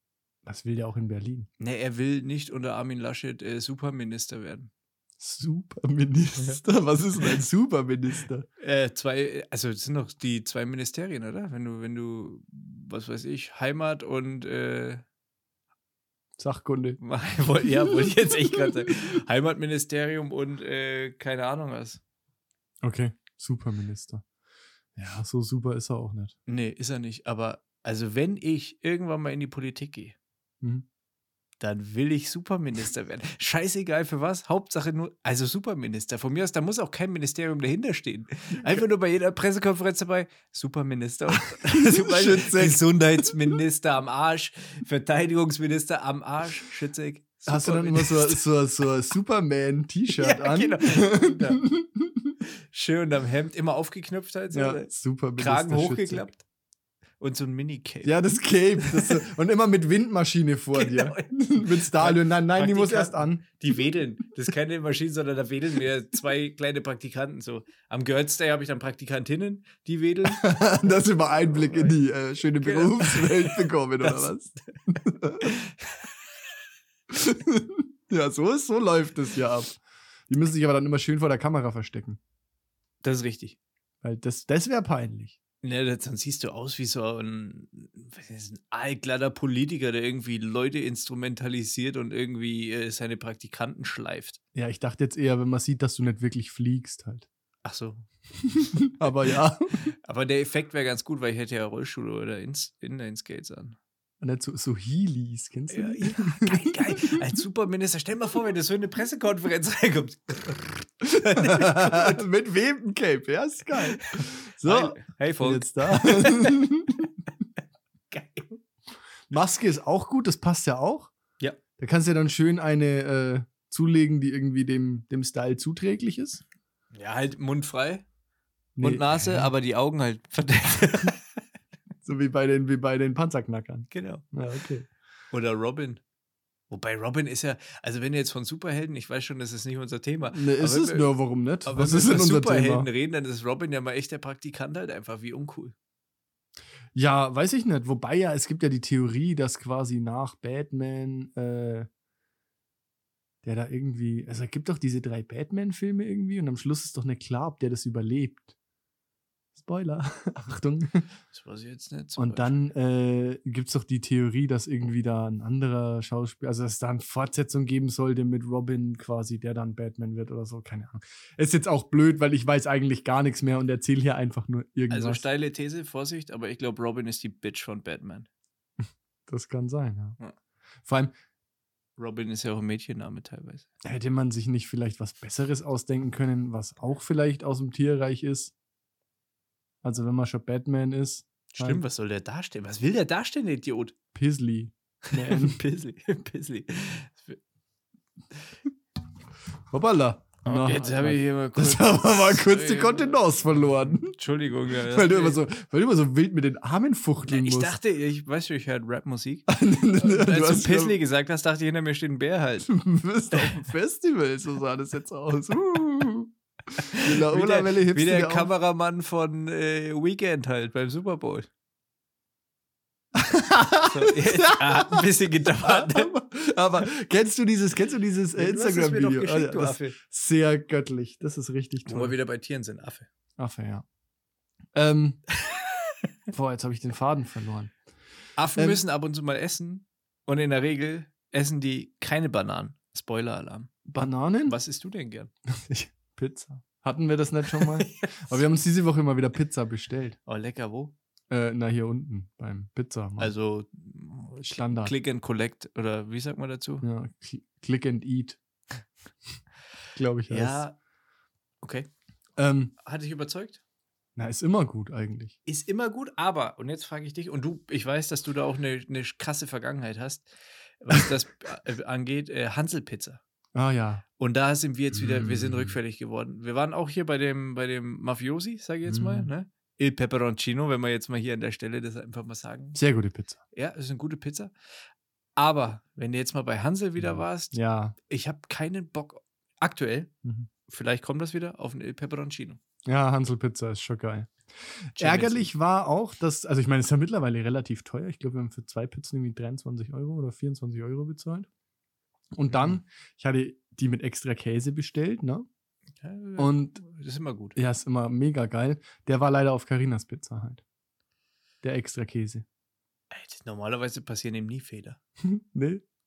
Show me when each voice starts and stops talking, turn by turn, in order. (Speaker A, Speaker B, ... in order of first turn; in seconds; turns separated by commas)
Speaker A: 0.4-1.5, Speaker B: 1.6-4.7, Speaker A: 5.2-8.4, Speaker B: 8.6-15.0, Speaker A: 16.4-17.0, Speaker B: 17.0-22.0, Speaker A: 17.6-18.8, Speaker A: 22.8-24.2, Speaker A: 24.9-26.3, Speaker B: 26.5-30.1, Speaker A: 30.6-30.9, Speaker B: 31.6-48.4, Speaker A: 41.6-43.5, Speaker A: 47.5-52.4, Speaker B: 50.1-51.6, Speaker B: 52.7-56.4, Speaker A: 54.5-56.3, Speaker B: 57.2-58.2, Speaker A: 58.0-63.4, Speaker B: 58.8-59.2, Speaker B: 60.7-72.0, Speaker A: 70.3-75.5, Speaker B: 72.6-74.3, Speaker B: 75.4-76.1, Speaker A: 77.1-82.2, Speaker B: 83.0-83.6, Speaker A: 84.0-85.4, Speaker B: 85.6-94.4, Speaker A: 94.5-97.3, Speaker B: 97.6-98.0, Speaker A: 98.6-99.7, Speaker B: 99.8-103.8, Speaker A: 104.2-107.2, Speaker B: 105.7-112.2, Speaker A: 111.1-117.0, Speaker B: 113.8-116.7, Speaker B: 118.1-118.5, Speaker A: 119.3-121.1, Speaker A: 121.8-126.4, Speaker B: 126.9-128.0, Speaker A: 128.8-129.5, Speaker B: 128.8-131.2, Speaker A: 132.0-134.9, Speaker B: 133.9-134.2, Speaker B: 135.3-136.0, Speaker B: 136.7-141.1, Speaker A: 140.3-142.9, Speaker B: 141.6-145.7, Speaker A: 146.9-151.9, Speaker A: 153.4-158.5, Speaker A: 159.5-161.0, Speaker B: 161.3-162.6, Speaker A: 162.2-175.2, Speaker B: 174.9-178.3, Speaker A: 179.3-180.2, Speaker A: 180.8-181.1, Speaker B: 182.0-183.7, Speaker A: 183.8-188.5, Speaker A: 189.8-191.8, Speaker B: 191.5-193.9, Speaker A: 194.1-195.6, Speaker B: 195.1-197.4, Speaker A: 199.7-204.1, Speaker B: 200.4-205.4, Speaker A: 204.9-207.8, Speaker B: 207.2-212.7, Speaker A: 209.5-211.0, Speaker A: 212.6-216.3, Speaker B: 213.3-213.6, Speaker B: 216.8-221.5, Speaker A: 217.0-218.5, Speaker A: 223.1-225.1, Speaker B: 223.8-226.1, Speaker A: 225.6-232.1, Speaker B: 228.3-230.0, Speaker B: 231.8-233.1, Speaker A: 233.4-233.8, Speaker A: 234.7-235.2, Speaker A: 236.3-237.7, Speaker B: 238.4-243.9, Speaker A: 243.9-244.6, Speaker B: 244.4-245.3, Speaker A: 245.5-250.2, Speaker B: 247.5-248.4, Speaker B: 250.2-250.9, Speaker A: 251.3-253.3, Speaker B: 253.2-256.9, Speaker A: 254.4-254.9, Speaker A: 256.8-258.4, Speaker A: 259.9-260.6, Speaker B: 260.3-260.8, Speaker B: 261.6-261.9, Speaker A: 262.4-262.7, Speaker B: 262.8-263.6, Speaker A: 264.1-265.4, Speaker B: 265.4-270.3, Speaker B: 270.8-273.2, Speaker A: 273.5-274.0, Speaker B: 274.2-282.8, Speaker A: 275.0-275.7, Speaker A: 278.9-279.3, Speaker A: 282.7-283.4, Speaker B: 283.5-284.5, Speaker B: 285.4-287.5, Speaker A: 287.0-288.0, Speaker B: 288.1-290.1, Speaker B: 290.7-292.6, Speaker A: 292.9-294.3, Speaker A: 294.9-301.5, Speaker B: 295.0-295.5, Speaker A: 302.3-305.4, Speaker B: 306.0-307.6, Speaker A: 306.4-306.8, Speaker A: 307.5-310.6, Speaker A: 311.6-312.4, Speaker B: 313.1-315.0, Speaker A: 315.2-315.8